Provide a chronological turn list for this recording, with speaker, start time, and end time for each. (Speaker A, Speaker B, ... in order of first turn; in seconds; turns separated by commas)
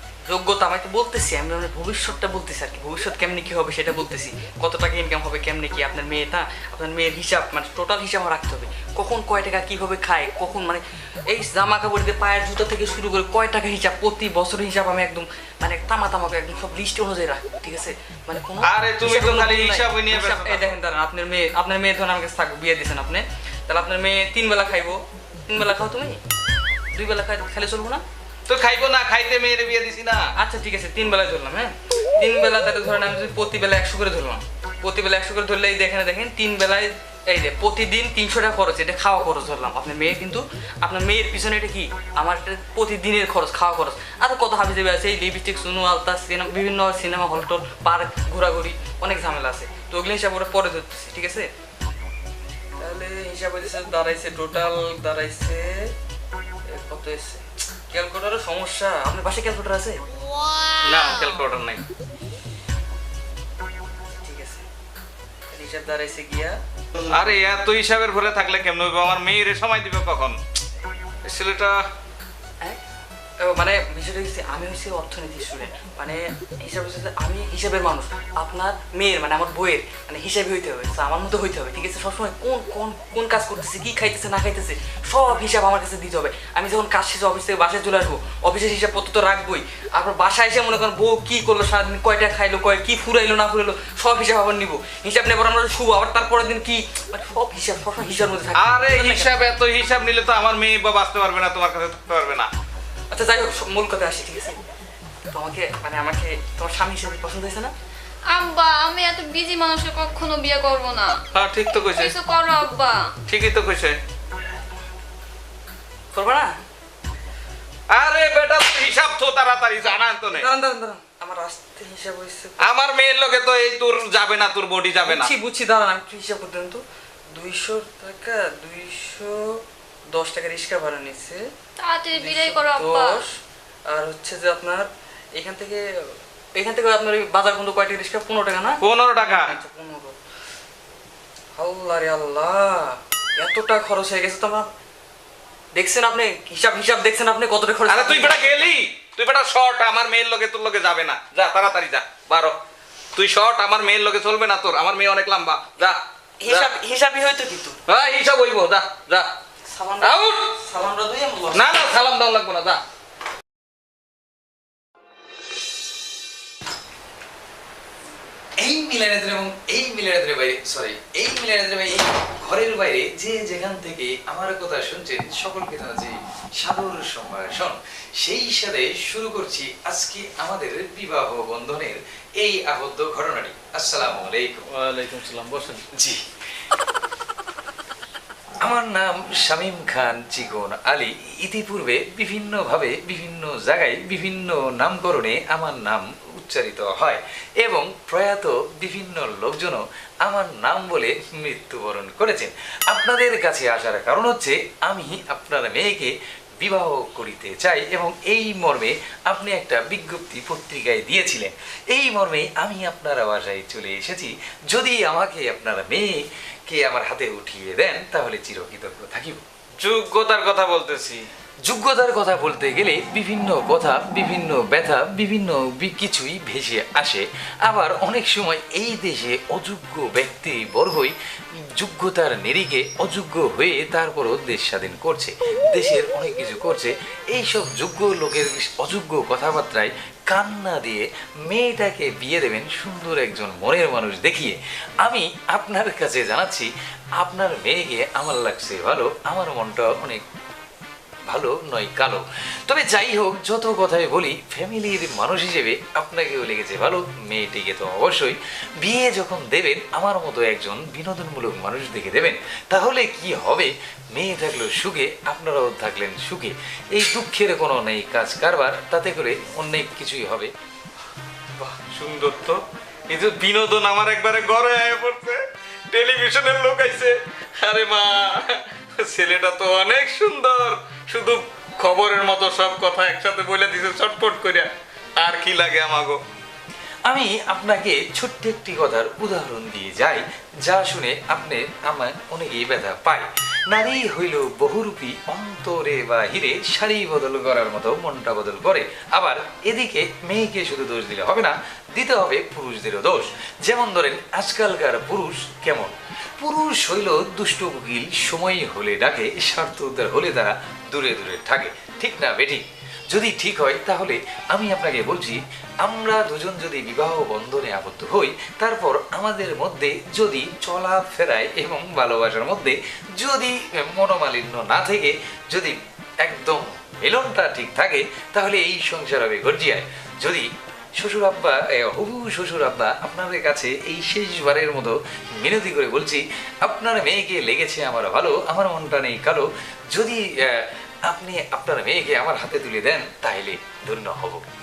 Speaker A: 0.3-26.2, Speaker B: 18.6-20.7, Speaker A: 26.9-28.0, Speaker B: 28.5-30.2, Speaker A: 30.4-51.5, Speaker A: 52.8-55.9, Speaker A: 56.7-60.1, Speaker B: 60.8-61.8, Speaker A: 64.2-64.6, Speaker A: 65.5-66.6, Speaker B: 67.1-70.4, Speaker B: 71.2-71.8, Speaker A: 73.4-99.3, Speaker B: 98.6-102.5, Speaker A: 103.1-104.6, Speaker A: 105.3-107.7, Speaker C: 108.3-111.2, Speaker B: 111.3-112.2, Speaker C: 111.9-113.1, Speaker B: 113.3-114.0, Speaker A: 116.1-116.6, Speaker B: 117.9-120.5, Speaker A: 120.3-122.7, Speaker B: 122.7-125.3, Speaker A: 125.0-129.6, Speaker A: 130.1-131.4, Speaker C: 131.8-133.2, Speaker A: 132.2-133.3, Speaker A: 133.9-140.2, Speaker B: 138.8-139.5, Speaker A: 141.6-144.7, Speaker A: 145.7-148.5, Speaker B: 147.9-152.6, Speaker B: 153.2-156.7, Speaker A: 156.4-157.8, Speaker B: 157.9-159.3, Speaker A: 159.6-161.7, Speaker B: 160.0-160.5, Speaker B: 161.5-162.8, Speaker D: 168.6-185.1, Speaker B: 185.0-185.8, Speaker D: 188.6-216.1, Speaker D: 216.7-219.4, Speaker B: 219.8-221.2, Speaker D: 221.7-231.1, Speaker D: 231.7-246.7, Speaker D: 247.2-250.2, Speaker D: 251.3-270.5, Speaker B: 271.6-286.2, Speaker D: 287.1-344.4